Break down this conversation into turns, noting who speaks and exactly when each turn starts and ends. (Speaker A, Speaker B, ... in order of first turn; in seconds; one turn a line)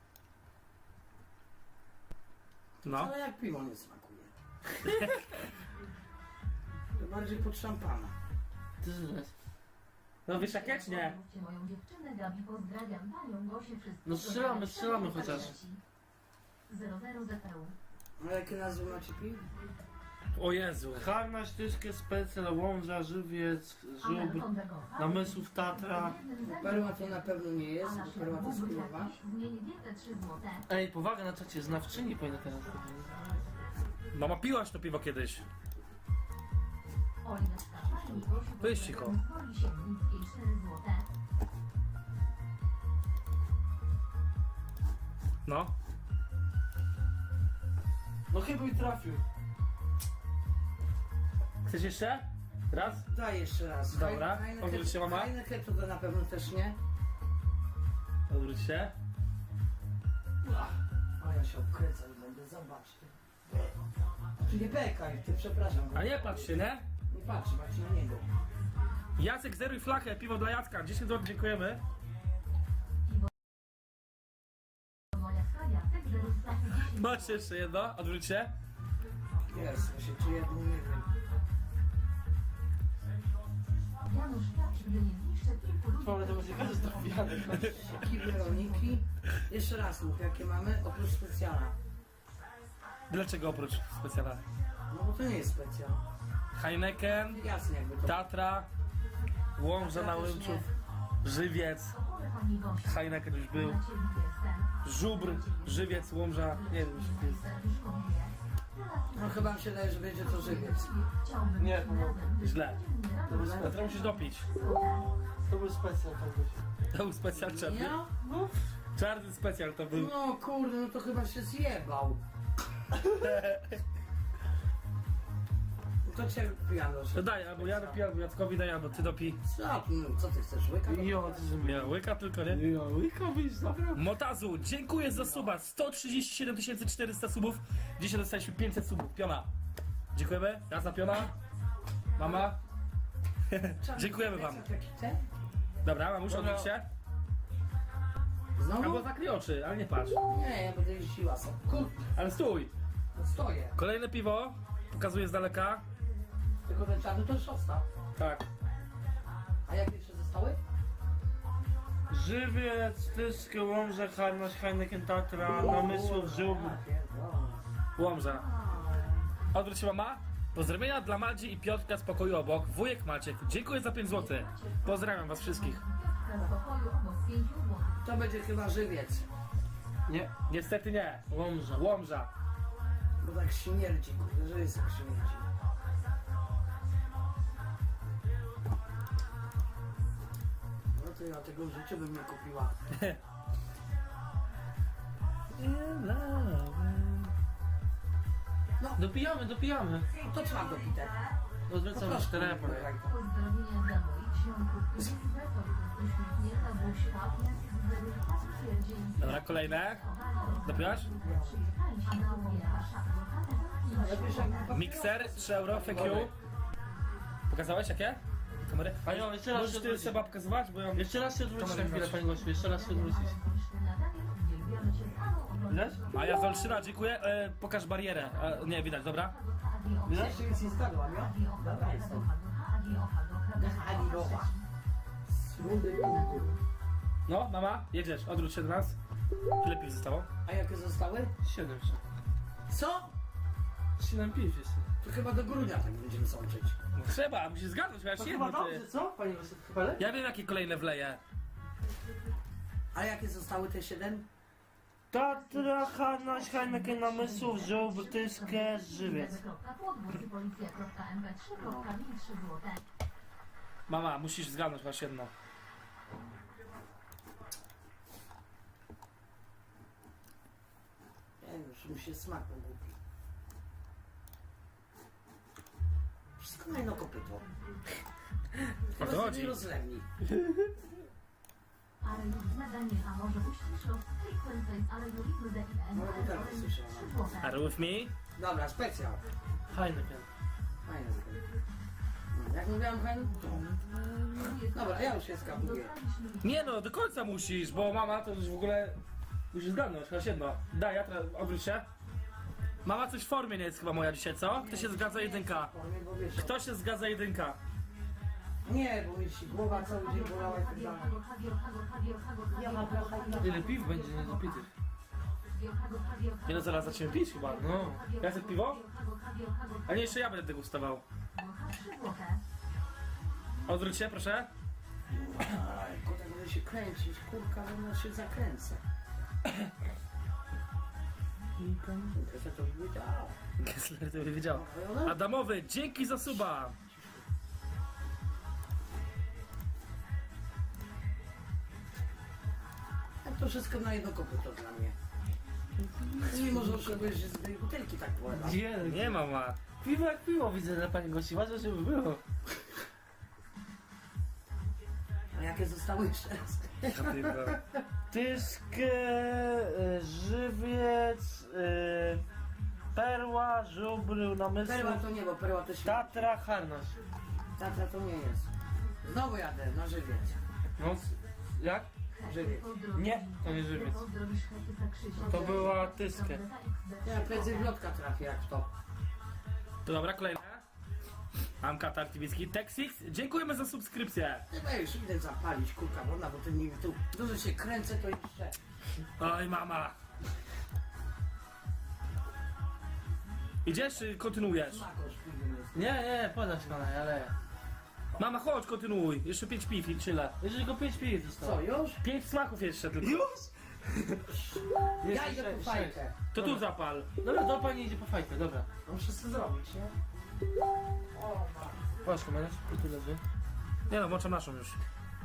Speaker A: 2.8-3.1
Speaker B: 2.8-4.3
Speaker A: 4.8-5.3
Speaker B: 7.0-8.1
Speaker C: 8.8-9.3
Speaker A: 10.2-11.2
Speaker D: 10.3-15.8
Speaker C: 14.0-15.5
Speaker B: 15.2-15.5
Speaker D: 16.7-17.7
Speaker B: 18.2-19.4
Speaker A: 20.3-21.1
Speaker C: 20.9-26.2
Speaker D: 24.0-30.7
Speaker B: 26.4-29.1
Speaker C: 30.7-33.2
Speaker A: 34.1-35.4
Speaker D: 37.2-41.1
Speaker B: 37.8-38.3
Speaker A: 38.6-39.1
Speaker A: 45.4-45.7
Speaker C: 48.3-49.2
Speaker A: 51.6-53.0
Speaker B: 53.1-56.8
Speaker A: 53.9-55.3
Speaker A: 58.3-58.9
Speaker B: 60.4-63.1
Speaker B: 64.4-66.1
Speaker A: 65.9-66.8
Speaker B: 67.1-68.2
Speaker A: 69.2-71.8
Speaker D: 75.1-77.4
Speaker A: 76.8-78.5
Speaker B: 79.5-81.1
Speaker D: 84.0-89.0
Speaker C: 86.0-87.9
Speaker B: 87.3-91.7
Speaker A: 93.1-94.4
Speaker B: 94.9-96.0
Speaker A: 96.5-97.4
Speaker B: 97.3-98.2
Speaker A: 98.0-98.7
Speaker A: 99.6-100.7
Speaker B: 99.8-100.7
Speaker A: 101.2-101.9
Speaker D: 101.9-115.1
Speaker A: 102.8-103.8
Speaker A: 104.8-107.1
Speaker C: 106.8-107.3
Speaker B: 109.1-110.9
Speaker C: 111.6-112.3
Speaker A: 112.4-112.8
Speaker B: 113.3-113.7
Speaker C: 113.3-113.8
Speaker A: 113.5-114.5
Speaker C: 115.4-116.6
Speaker A: 116.9-118.0
Speaker B: 117.3-118.1
Speaker C: 118.2-118.6
Speaker A: 118.9-120.1
Speaker B: 119.9-122.2
Speaker A: 123.2-123.8
Speaker B: 126.0-128.0
Speaker A: 127.1-129.4
Speaker B: 129.4-131.7
Speaker C: 130.9-131.9
Speaker A: 131.6-132.6
Speaker C: 132.5-134.1
Speaker A: 133.9-139.5
Speaker A: 140.1-141.3
Speaker A: 142.2-142.6
Speaker A: 143.5-144.6
Speaker B: 143.8-145.2
Speaker A: 145.8-146.9
Speaker C: 146.3-146.7
Speaker B: 148.6-149.1
Speaker A: 148.8-150.2
Speaker B: 150.3-152.0
Speaker A: 152.1-152.7
Speaker B: 153.1-153.8
Speaker A: 153.8-155.8
Speaker B: 156.7-157.8
Speaker A: 158.2-158.4
Speaker B: 159.7-160.6
Speaker C: 162.1-166.8
Speaker B: 165.4-167.6
Speaker A: 167.9-168.4
Speaker A: 169.5-175.8
Speaker D: 174.0-177.9
Speaker B: 178.0-179.3
Speaker C: 180.1-180.3
Speaker A: 180.5-182.3
Speaker C: 181.3-181.9
Speaker B: 183.2-185.5
Speaker B: 190.9-192.7
Speaker A: 192.9-193.2
Speaker A: 195.6-197.3
Speaker C: 199.0-200.1
Speaker B: 200.1-201.2
Speaker C: 201.7-202.9
Speaker B: 201.9-203.2
Speaker D: 203.0-214.8
Speaker A: 209.2-210.0
Speaker A: 210.6-211.1
Speaker B: 210.9-211.6
Speaker B: 213.9-216.3
Speaker A: 214.7-216.3
Speaker A: 217.5-222.2
Speaker C: 219.0-220.2
Speaker C: 220.9-223.4
Speaker D: 222.2-226.9
Speaker C: 225.7-226.0
Speaker A: 226.1-229.3
Speaker D: 228.5-234.7
Speaker B: 230.0-232.3
Speaker B: 233.5-234.5
Speaker B: 235.3-236.5
Speaker D: 235.6-236.6
Speaker A: 237.3-239.0
Speaker A: 239.6-240.3
Speaker B: 240.4-241.3
Speaker C: 241.4-242.0
Speaker B: 242.7-243.1
Speaker C: 244.0-244.8
Speaker B: 245.0-246.8
Speaker A: 246.9-248.8
Speaker C: 248.2-250.1
Speaker A: 250.0-251.2
Speaker B: 252.9-254.2
Speaker C: 255.1-259.4
Speaker D: 255.2-262.8
Speaker B: 261.6-261.9
Speaker A: 263.9-265.3
Speaker B: 271.4-272.9
Speaker B: 276.4-277.4
Speaker B: 278.9-280.1
Speaker A: 279.0-279.6
Speaker D: 282.0-287.6
Speaker B: 285.9-287.2
Speaker A: 287.4-288.1
Speaker B: 288.3-289.2
Speaker C: 289.7-290.3
Speaker B: 290.8-291.4
Speaker B: 292.3-293.7
Speaker C: 293.7-294.3
Speaker D: 294.3-296.7
Speaker B: 294.7-295.9
Speaker A: 296.4-299.0
Speaker A: 299.5-301.9
Speaker A: 302.8-305.7
Speaker B: 304.5-306.6
Speaker A: 306.4-307.6
Speaker B: 308.6-311.2
Speaker D: 309.6-314.7
Speaker B: 312.5-313.6
Speaker C: 313.4-314.7
Speaker D: 315.5-320.2
Speaker A: 316.4-318.8
Speaker C: 317.5-318.0
Speaker A: 319.9-321.0
Speaker D: 321.3-322.4
Speaker A: 323.6-324.5
Speaker B: 325.1-328.8
Speaker A: 331.7-332.0
Speaker B: 332.1-333.4
Speaker A: 333.6-336.7
Speaker B: 334.5-335.2
Speaker B: 343.2-344.9
Speaker C: 346.0-347.1
Speaker B: 346.2-348.6
Speaker C: 348.4-349.2
Speaker A: 348.8-349.6
Speaker C: 349.8-352.2
Speaker B: 355.3-357.3
Speaker A: 356.9-357.6
Speaker C: 358.1-362.2
Speaker C: 362.9-365.0
Speaker B: 364.6-366.3
Speaker C: 365.8-366.9
Speaker B: 367.6-368.5
Speaker B: 369.0-370.4
Speaker C: 370.8-371.9
Speaker D: 372.1-377.8
Speaker B: 372.2-372.6
Speaker C: 372.9-374.0
Speaker B: 375.2-375.7
Speaker C: 375.2-376.4
Speaker B: 377.0-378.7
Speaker A: 379.8-380.6
Speaker A: 381.6-384.4
Speaker B: 384.5-388.6
Speaker A: 389.2-389.9
Speaker A: 393.6-394.9
Speaker B: 394.5-395.9
Speaker C: 395.7-397.3
Speaker A: 398.2-400.3
Speaker C: 400.4-401.6
Speaker B: 401.4-402.0
Speaker A: 402.0-403.2
Speaker C: 403.0-404.4
Speaker C: 405.0-406.6
Speaker B: 405.1-406.1
Speaker A: 406.3-407.1
Speaker C: 407.2-408.7
Speaker B: 408.9-409.9
Speaker B: 411.1-411.7
Speaker C: 412.0-413.2
Speaker A: 413.9-414.8